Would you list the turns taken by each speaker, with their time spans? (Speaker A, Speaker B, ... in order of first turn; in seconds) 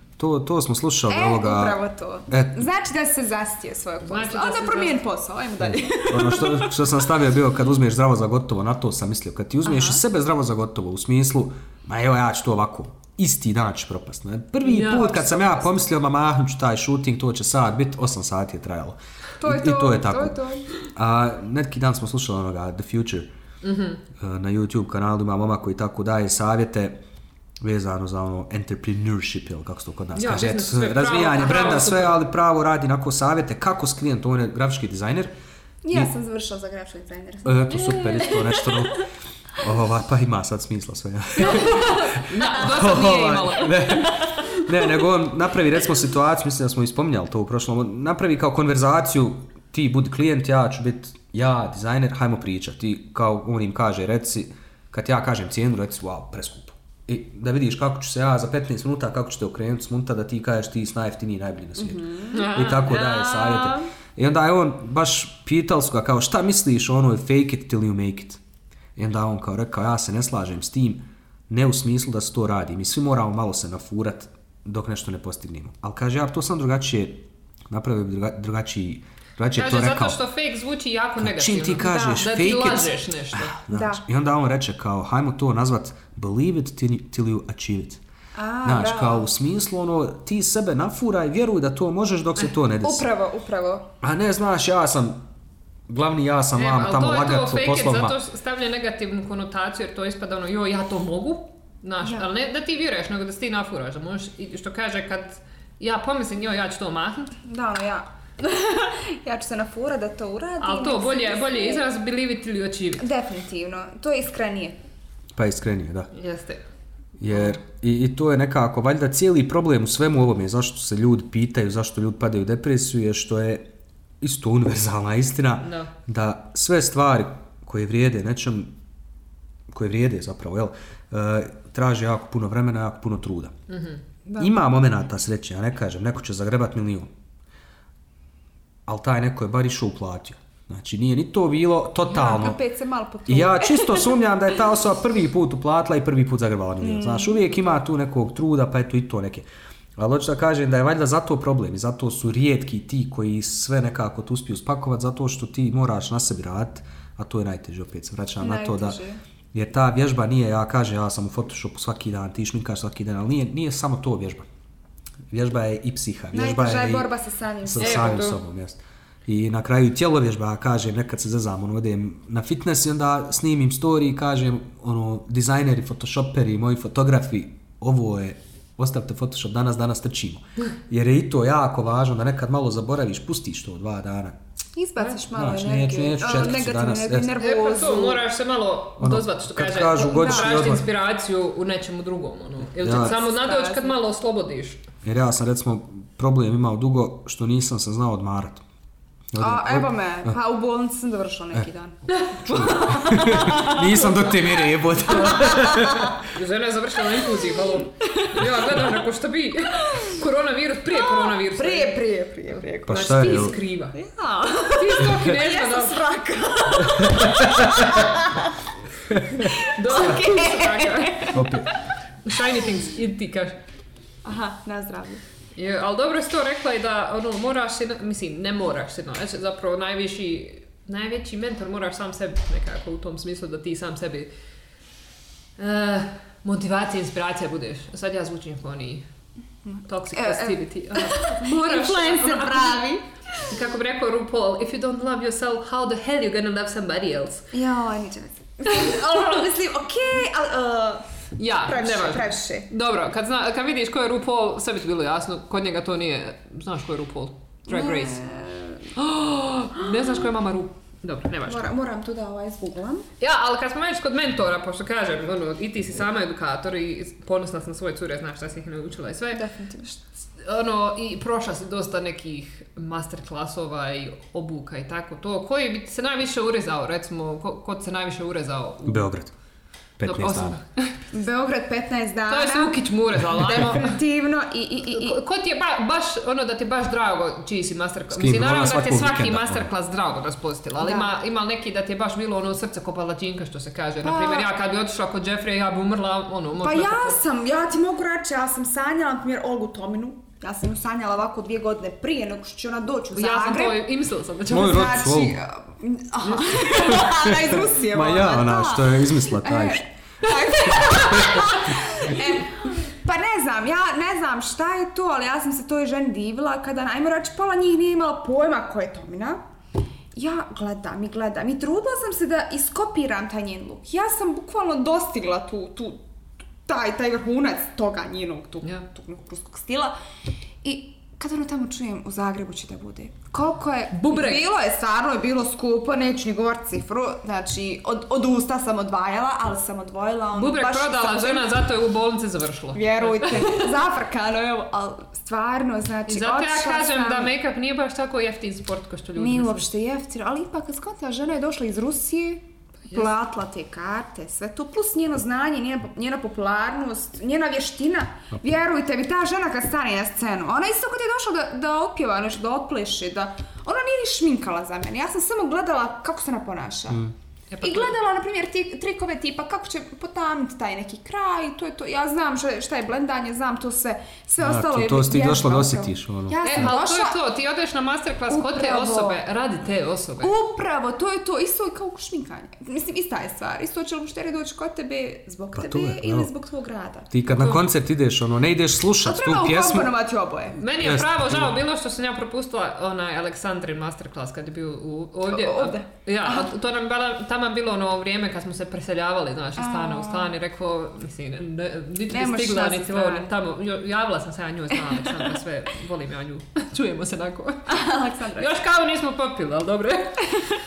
Speaker A: 0.2-2.6, 5.7-23.3, 24.1-27.0, 27.6-35.3, 37.5-68.4, 69.0-80.2, 81.2-88.0, 88.6-93.1, 94.0-95.2, 95.9-98.2, 115.4-116.1, 117.2-123.7, 124.2-128.7, 129.7-133.5, 134.4-137.1, 138.9-142.6, 143.3-149.5, 150.0-159.0, 159.5-164.5, 165.3-167.1, 167.7-184.4, 185.3-187.3, 189.0-190.8, 192.8-193.2, 195.0-198.6, 199.3-200.4, 202.5-206.2, 212.9-213.6, 216.8-218.1, 219.1-219.6, 221.3-221.7, 278.9-279.3, 280.0-280.6, 288.1-289.7, 304.5-305.4, 306.8-309.9, 310.8-311.6, 374.4-376.7, 385.6-386.3, 387.1-389.9, 390.8-391.6
Speaker B: 1.1-7.0, 9.6-10.0, 19.4-20.6, 35.8-39.0, 41.5-41.8, 61.8-63.8, 83.7-84.0, 88.3-89.3, 92.8-93.9, 107.4-111.8, 113.0-114.8, 134.3-134.5, 142.1-144.2, 146.8-147.6, 158.4-159.2, 166.3-168.2, 184.8-188.2, 190.0-190.8, 193.1-194.0, 199.4-206.1, 208.0-209.0, 209.8-210.2, 210.9-218.5, 219.4-221.7, 224.2-225.2, 239.7-243.6, 247.5-251.1, 251.7-252.7, 257.7-258.9, 259.8-260.1, 261.5-263.1, 269.3-270.0, 281.1-285.2, 290.8-291.1, 294.0-294.5, 296.6-303.8, 304.5-319.4, 320.1-326.0, 326.6-329.9, 330.6-341.5, 342.8-347.3, 349.2-367.0, 367.6-377.2, 378.3-379.2, 380.2-387.6, 389.0-390.6, 395.3-396.5, 399.6-400.4, 402.1-403.3, 404.8-405.3, 407.7-408.5
Speaker C: 4.0-5.0, 14.6-15.7, 23.6-24.0, 30.2-32.2, 41.4-44.5, 62.3-63.4, 79.6-83.5, 96.6-107.3, 110.6-113.0, 116.1-116.6, 125.6-125.9, 133.7-134.0, 167.8-168.4, 185.0-185.2, 187.4-194.8, 202.1-202.9, 206.2-212.0, 212.6-214.0, 214.8-216.0, 219.6-221.4, 222.2-223.6, 225.6-234.3, 235.6-239.0, 239.9-242.8, 243.4-247.5, 251.4-258.2, 259.0-261.7, 263.2-269.4, 270.4-279.1, 280.1-281.0, 282.3-284.0, 284.9-297.2, 303.1-305.1, 306.2-307.1, 333.9-334.5, 340.4-343.8, 346.1-349.7, 367.5-367.9, 376.4-380.3, 387.3-387.6, 390.6-410.4